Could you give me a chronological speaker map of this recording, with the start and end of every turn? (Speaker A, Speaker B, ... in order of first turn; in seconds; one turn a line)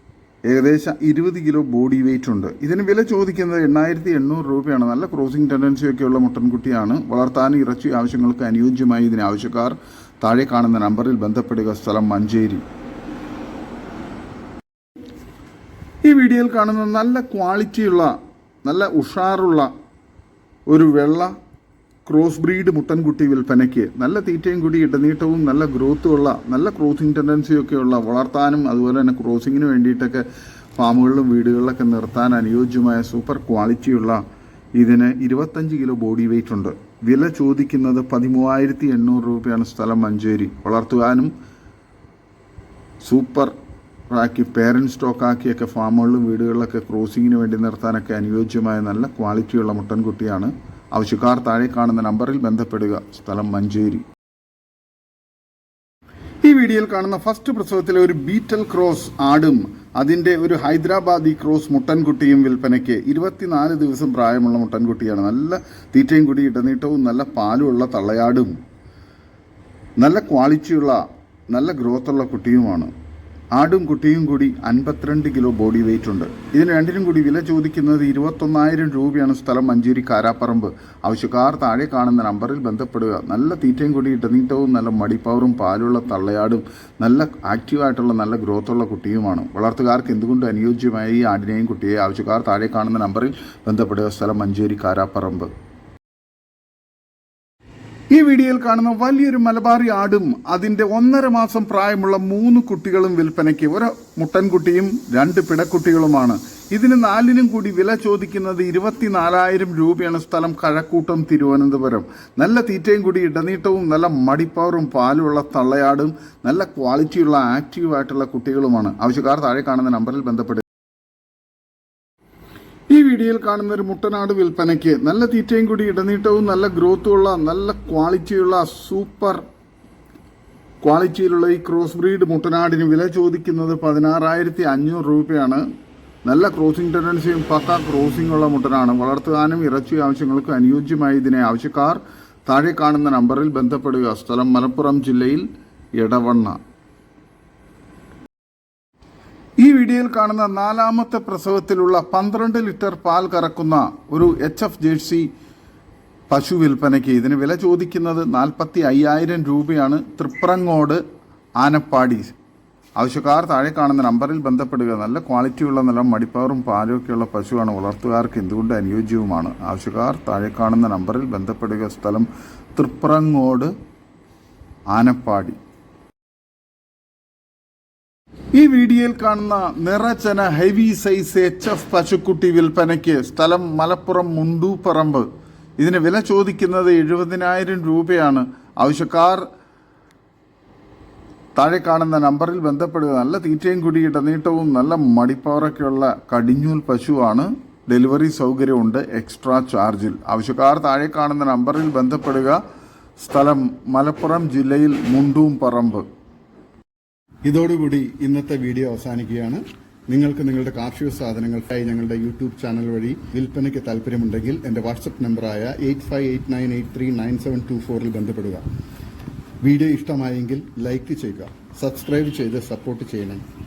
Speaker A: 0.5-12.6
Speaker A: 16.0-19.7
Speaker A: 20.7-21.3
Speaker A: 22.1-30.2
Speaker A: 30.8-34.2
Speaker A: 34.8-41.3
Speaker A: 43.0-43.5
Speaker A: 44.1-54.0
Speaker A: 56.4-68.5
Speaker A: 70.0-72.9
Speaker A: 73.5-95.5
Speaker A: 98.1-120.7
Speaker A: 122.9-129.4
Speaker A: 130.8-135.6
Speaker A: 136.2-146.6
Speaker A: 149.6-155.3
Speaker A: 156.3-161.0
Speaker A: 161.6-162.3
Speaker A: 163.0-173.7
Speaker A: 174.9-175.6
Speaker A: 178.6-185.3
Speaker A: 185.8-189.4
Speaker A: 191.6-202.6
Speaker A: 203.2-206.1
Speaker A: 207.5-218.6
Speaker A: 219.6-223.4